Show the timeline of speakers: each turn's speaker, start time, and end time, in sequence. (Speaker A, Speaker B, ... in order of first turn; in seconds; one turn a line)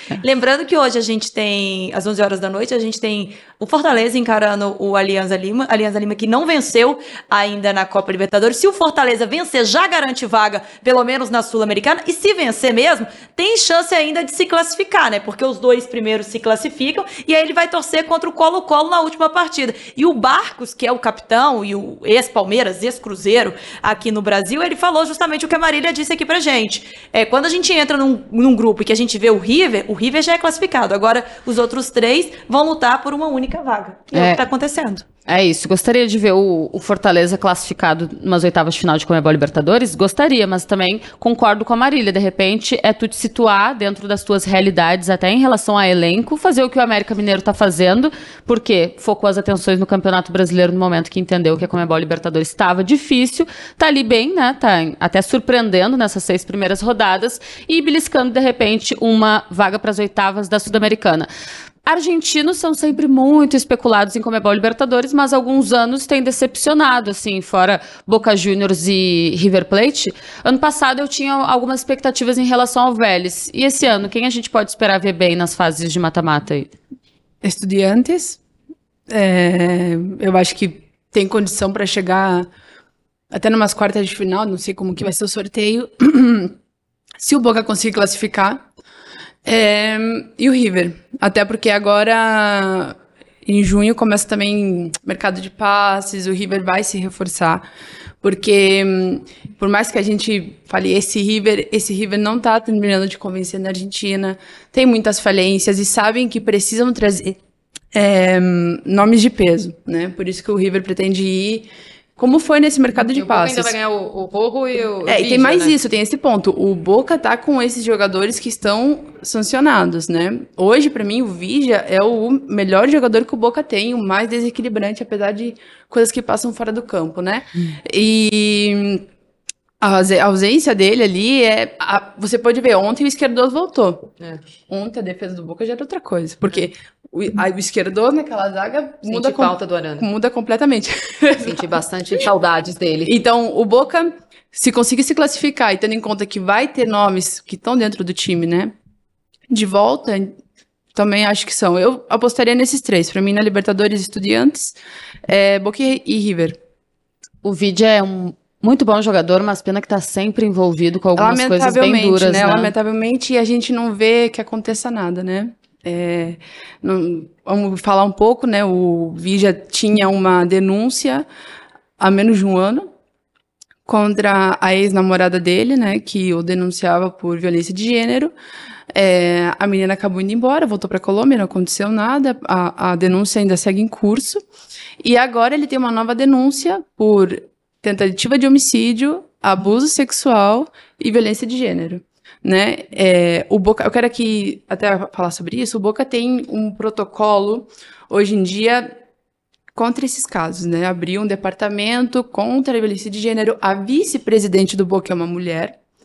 Speaker A: 0.2-35.0
Speaker B: 34.1-34.4
Speaker B: 35.3-61.3
Speaker B: 61.9-76.7
Speaker C: 77.4-78.4
Speaker C: 79.1-82.5
Speaker C: 83.3-86.5
Speaker C: 87.2-88.7
Speaker C: 89.4-97.6
Speaker C: 98.2-107.4
Speaker C: 107.9-113.8
Speaker D: 113.1-115.8
Speaker C: 115.0-129.0
Speaker C: 129.8-134.1
Speaker C: 134.7-142.2
Speaker D: 139.1-140.1
Speaker D: 141.4-143.2
Speaker C: 143.1-148.7
Speaker C: 149.5-150.3
Speaker C: 150.9-156.6
Speaker B: 157.4-162.7
Speaker C: 161.2-171.2
Speaker C: 172.0-172.9
Speaker C: 173.8-178.3
Speaker C: 178.9-184.4
Speaker C: 185.0-198.9
Speaker C: 199.7-205.8